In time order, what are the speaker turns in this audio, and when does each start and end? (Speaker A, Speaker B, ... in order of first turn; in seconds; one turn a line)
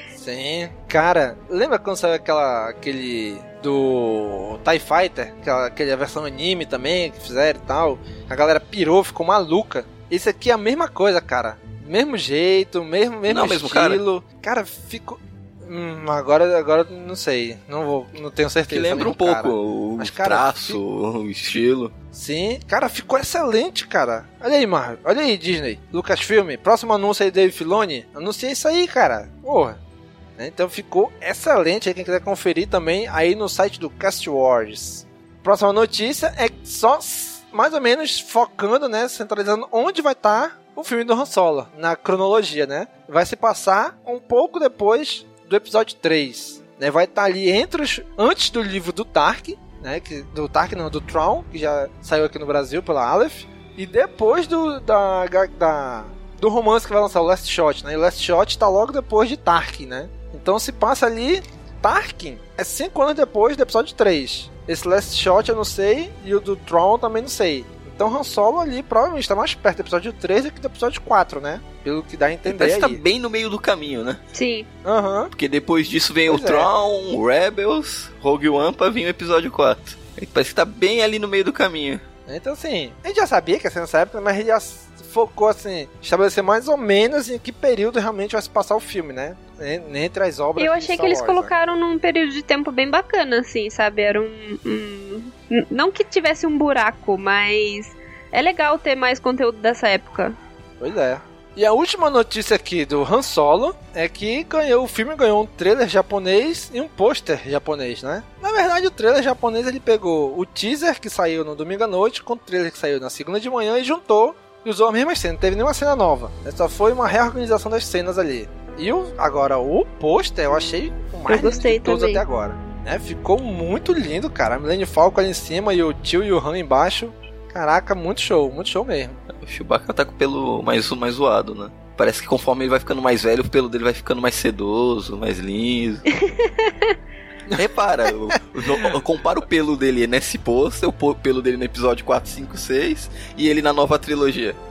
Speaker A: 0.1-20.8
Speaker B: 13.3-14.0
Speaker B: 18.7-21.9
Speaker A: 22.1-29.8
Speaker A: 30.4-73.0
Speaker B: 72.5-74.2
Speaker C: 74.3-74.7
Speaker A: 74.8-75.3
Speaker B: 75.3-82.0
Speaker A: 76.3-76.7
Speaker A: 82.3-91.5
Speaker C: 90.6-100.4
Speaker A: 100.8-129.2
Speaker C: 121.3-122.2
Speaker B: 129.3-136.1
Speaker C: 136.2-136.9
Speaker B: 137.5-144.6